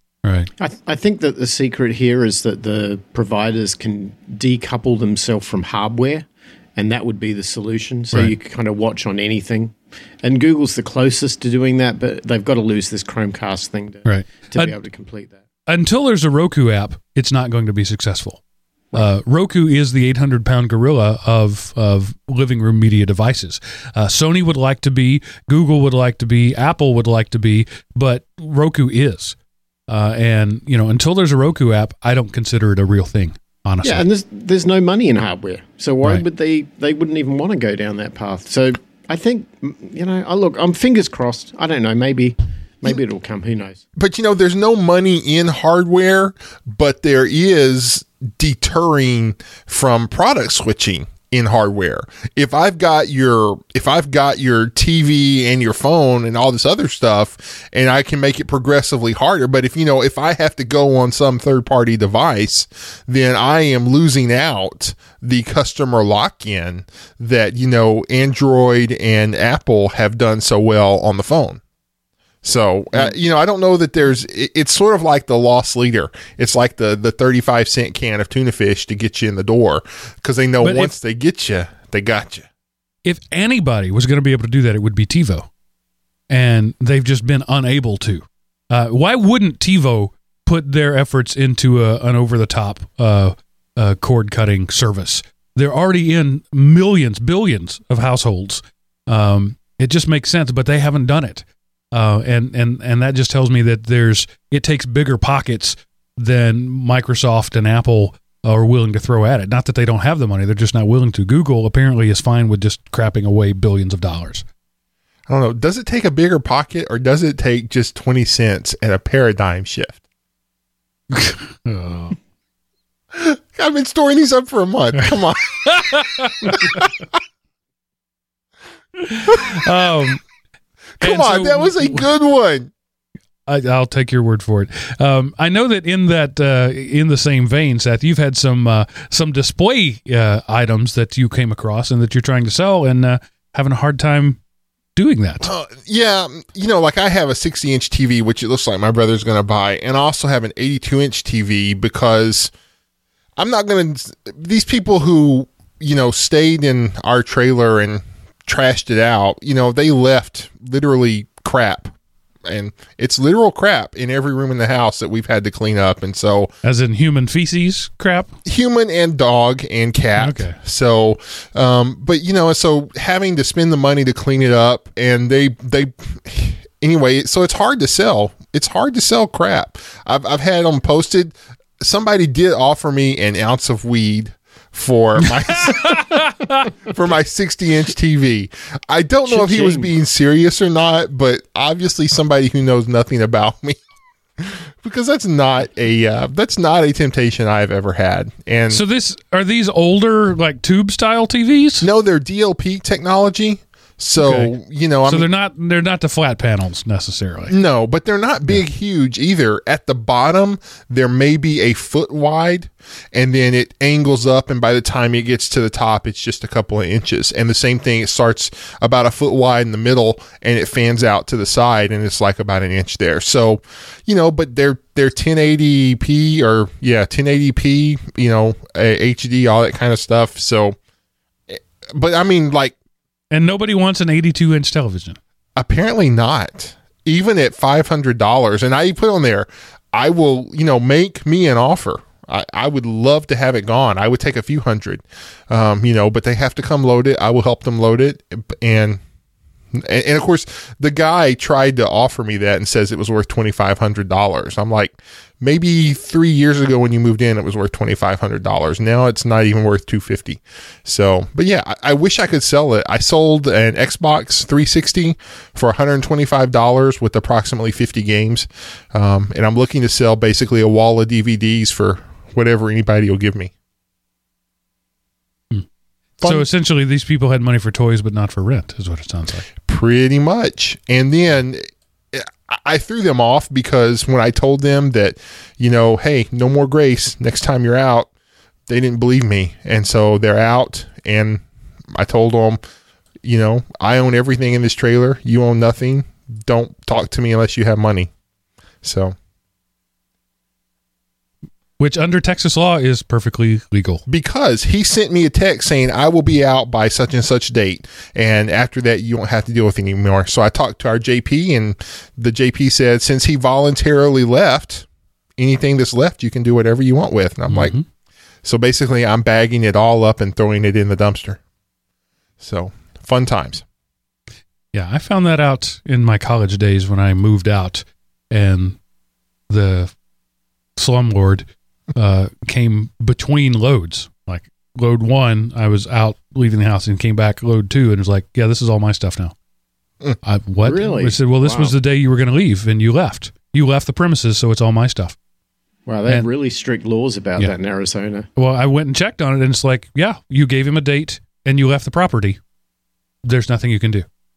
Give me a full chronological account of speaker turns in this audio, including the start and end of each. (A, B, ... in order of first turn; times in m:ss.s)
0:00.2-0:00.5 A
0:00.6-0:15.4 B
0:14.1-0:14.7 A
0:15.7-0:18.4 A
0:18.9-0:29.4 A
0:29.9-0:34.0 A
0:33.8-0:43.8 B
0:44.0-1:11.6 C
1:12.4-1:22.5 C
1:20.6-1:20.9 A
1:23.0-1:25.5 A
1:26.3-1:54.4 A
1:55.3-2:00.0 C
2:01.1-2:02.2 A
2:03.1-2:06.9 C
2:05.7-2:06.7 A
2:09.0-2:10.2 A
2:09.3-2:09.7 C
2:11.0-2:12.7 C
2:11.0-2:12.1 A
2:13.5-2:24.4 A
2:25.0-2:25.5 A
2:25.4-2:32.5 C
2:33.4-2:41.9 C
2:42.4-2:46.5 C
2:46.6-2:48.3 A
2:48.4-3:06.3 C
2:50.2-2:50.6 A
3:05.5-3:06.7 A
3:06.9-3:13.8 C
3:09.3-3:09.9 B
3:14.4-3:18.8 C
3:18.7-3:21.9 A
3:21.8-3:25.3 C
3:24.2-3:24.5 A
3:25.1-3:27.5 A
3:27.5-3:50.8 C
3:51.5-3:52.8 C
3:53.3-3:55.2 A
3:55.6-4:09.0 C
4:09.7-4:33.5 C
4:36.2-4:36.5 C
4:36.2-4:39.5 A
4:39.7-4:48.1 C
4:48.7-4:52.6 C
4:53.2-4:58.1 C
4:58.8-4:59.1 C
5:01.8-5:04.0 A
5:04.1-5:14.9 C
5:15.4-5:17.8 C
5:17.5-5:17.8 A
5:18.4-5:21.4 C
5:22.4-5:23.6 C
5:24.7-5:28.8 A
5:29.5-5:29.9 A
5:30.8-5:39.4 A
5:40.2-5:45.2 A
5:40.6-5:41.8 B
5:45.9-5:48.3 B
5:48.4-5:52.4 A
5:53.2-5:54.1 A